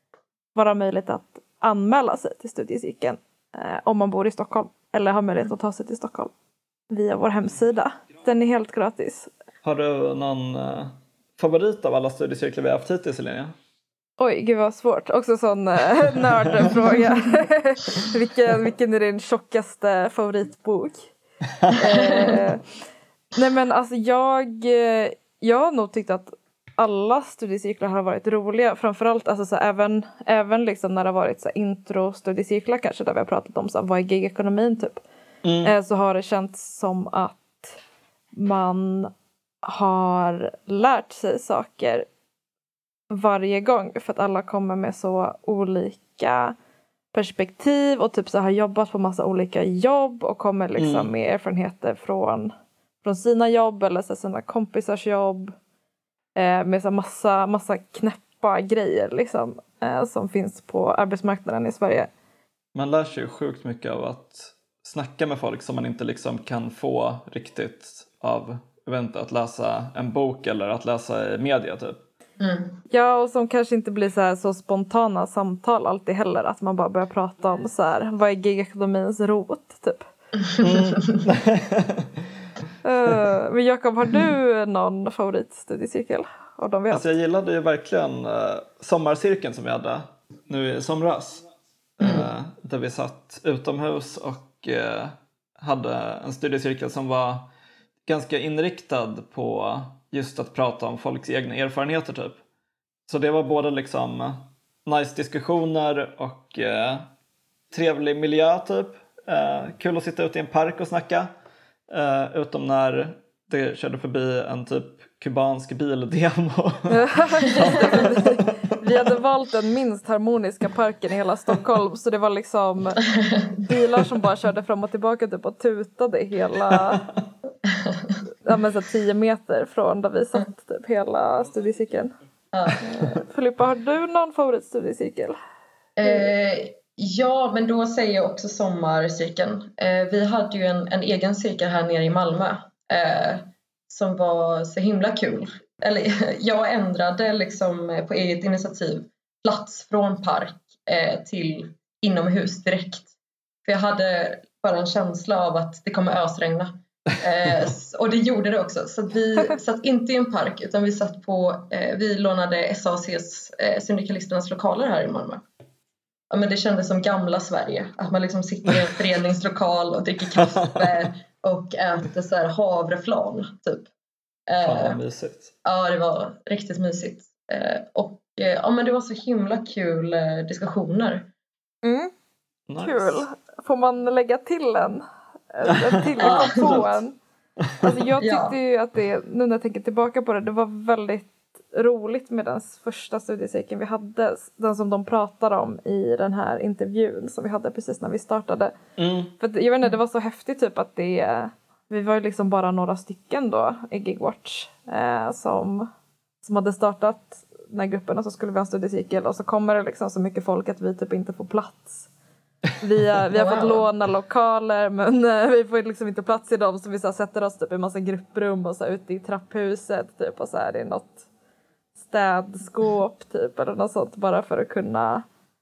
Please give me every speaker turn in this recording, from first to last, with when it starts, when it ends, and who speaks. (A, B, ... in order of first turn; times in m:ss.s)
0:00.5-0:06.3 A
0:06.9-0:09.3 A
0:09.6-0:13.5 B
0:14.2-0:21.1 A
0:16.4-0:16.8 B
0:21.8-0:22.6 A
0:21.8-0:22.4 C
0:23.3-0:35.0 A
0:35.4-0:35.7 B
0:35.6-0:37.7 A
0:38.3-0:39.1 A
0:39.6-0:42.1 A
0:43.1-0:46.5 A
0:47.1-0:55.5 A
0:50.8-0:51.1 B
0:56.4-1:02.1 A
1:02.7-1:12.0 B
1:12.4-1:12.8 C
1:12.9-1:20.1 A
1:20.5-1:21.2 C
1:20.6-1:22.2 B
1:22.8-1:27.1 A
1:26.9-1:31.4 B
1:32.0-1:37.5 B
1:32.0-1:32.3 C
1:38.0-1:42.4 B
1:43.1-1:47.1 B
1:47.7-1:51.3 B
1:51.9-1:58.9 B
1:56.9-2:03.0 A
2:03.2-2:03.4 C
2:03.5-2:07.0 A
2:06.7-2:07.2 B
2:07.7-2:08.2 C
2:08.4-2:12.1 A
2:12.5-2:13.2 C
2:12.8-2:15.3 A
2:16.0-2:33.1 C
2:33.6-2:45.4 C
2:46.3-2:53.9 C
2:50.4-2:51.0 B
2:54.5-2:55.0 C
2:54.6-2:55.5 B
2:55.6-3:01.3 C
3:01.8-3:02.1 A
3:02.7-3:03.2 B
3:02.8-3:07.1 A
3:05.6-3:06.9 B
3:06.2-3:06.9 C
3:07.6-3:07.9 B
3:07.8-3:18.7 A
3:08.2-3:08.6 C
3:19.0-3:19.3 B
3:19.4-3:25.9 A
3:26.4-3:32.1 A
3:32.8-3:41.2 A
3:33.3-3:33.9 C
3:42.0-3:45.2 A